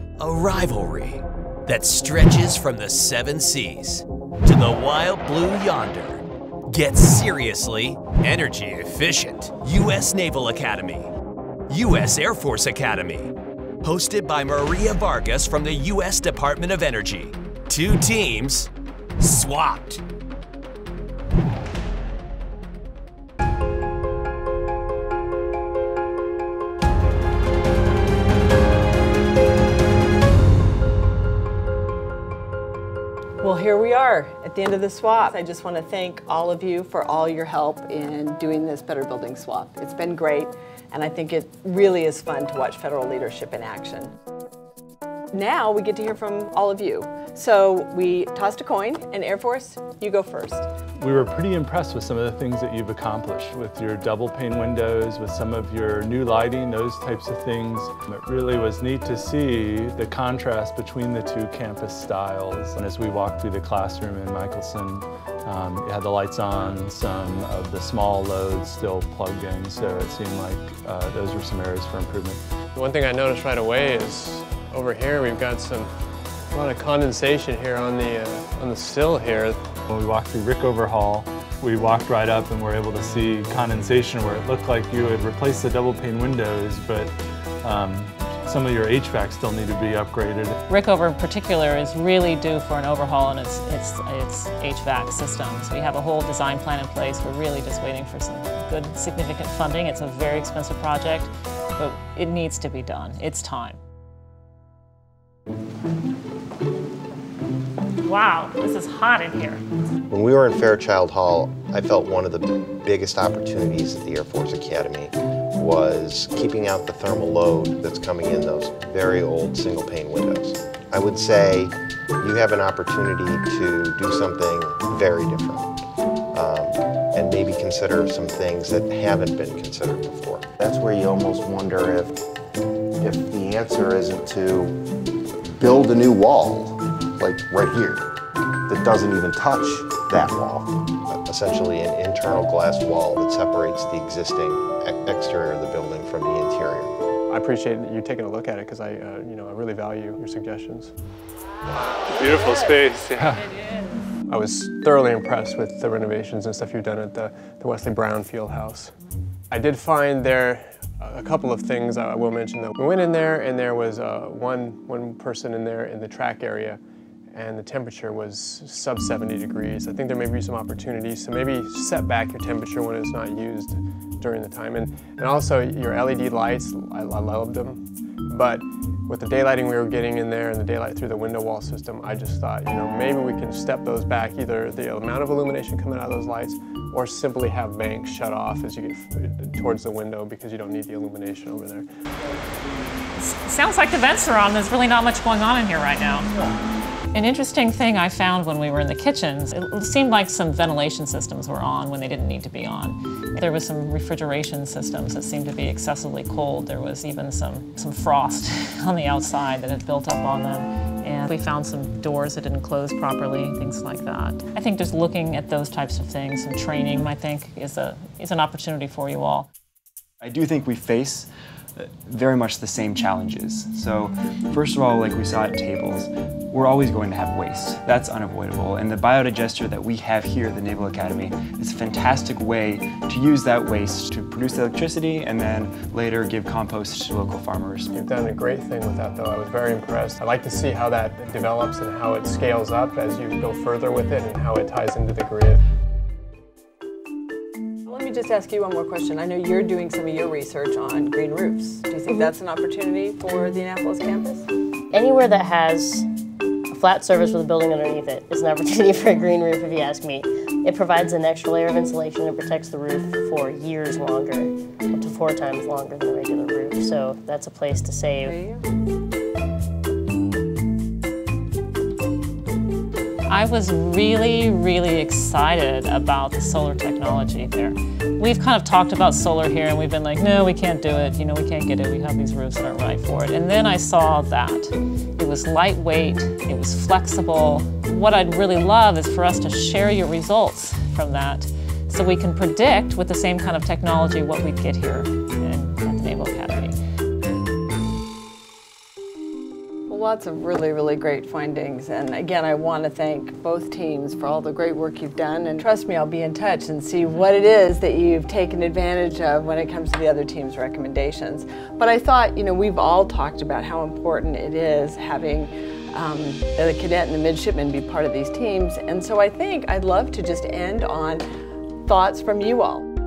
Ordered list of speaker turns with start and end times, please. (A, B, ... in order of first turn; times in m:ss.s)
0:00.2-0:11.1 A
0:11.7-0:13.3 A
0:13.8-0:20.0 A
0:33.4-0:44.1 B
0:45.3-0:50.7 B
0:51.0-1:12.4 C
1:12.7-1:15.9 D
1:16.5-1:19.6 D
1:19.9-1:27.1 C
1:27.6-1:30.6 C
1:30.7-1:43.8 E
1:48.0-1:49.6 E
1:50.1-2:05.7 F
2:06.3-2:10.5 F
2:10.6-2:12.1 G
2:13.0-2:14.7 G
2:15.6-2:18.0 G
2:18.7-2:20.6 G
2:21.1-2:26.9 F
2:27.3-2:30.9 D
2:32.1-2:33.5 C
2:34.3-2:38.9 D
2:39.5-2:46.8 D
2:47.3-3:11.9 D
3:13.2-3:16.3 E
3:17.1-3:39.5 E
3:40.2-3:57.9 H
3:57.9-4:05.6 D
4:07.8-4:14.5 B
4:14.9-4:16.0 I
4:16.7-4:28.4 I
4:28.2-4:28.6 B
4:33.3-4:56.8 E
4:59.9-5:21.2 B
5:21.8-5:22.8 B